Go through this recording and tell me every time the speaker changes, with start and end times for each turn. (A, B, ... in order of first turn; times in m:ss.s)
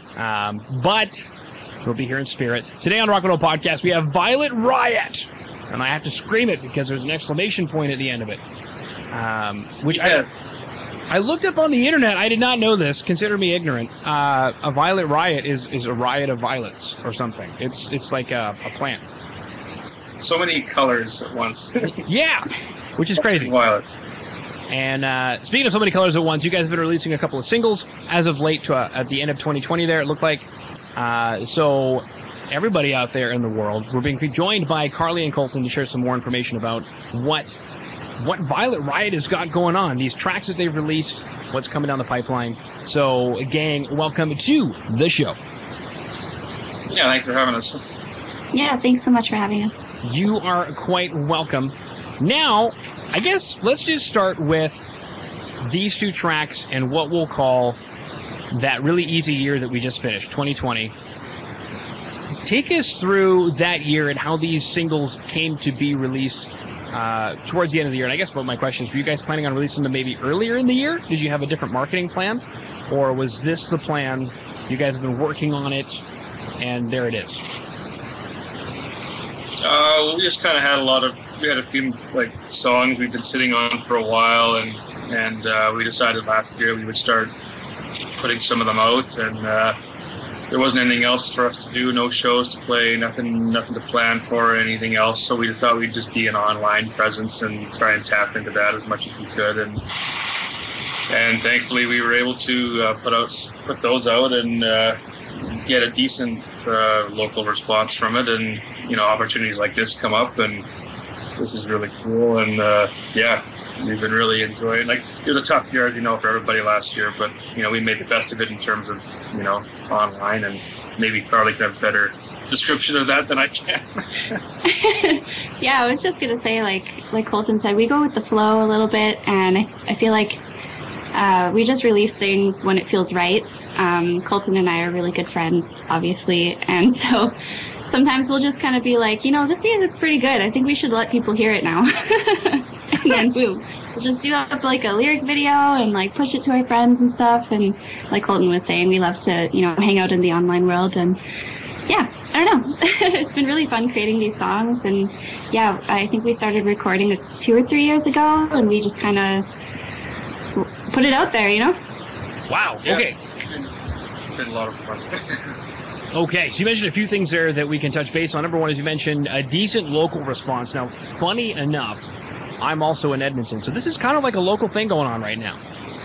0:00.2-0:01.3 A
0:01.8-0:08.4 A
0:09.1-0:10.2 A
0:09.9-0:10.3 B
0:11.1-0:19.0 A
0:20.2-0:22.0 B
0:22.0-0:23.5 A
0:23.2-0:23.8 B
0:24.7-0:37.6 A
0:38.2-0:45.4 A
0:46.9-0:47.8 B
0:48.5-0:49.8 C
0:50.0-0:54.9 A
0:55.6-0:57.8 A
0:58.5-1:00.9 A
1:02.4-1:16.0 A
1:16.6-1:17.4 A
1:19.6-1:27.3 B
1:28.2-1:29.8 B
1:30.5-1:39.8 B
1:41.1-1:50.7 B
1:51.4-2:04.4 B
2:04.6-2:10.4 C
2:11.1-2:31.2 C
2:31.9-2:39.5 C
2:40.6-2:41.8 C
2:42.5-2:43.2 A
2:42.8-2:43.7 B
2:44.4-2:45.6 B
2:46.1-2:52.1 A
2:52.6-2:55.6 A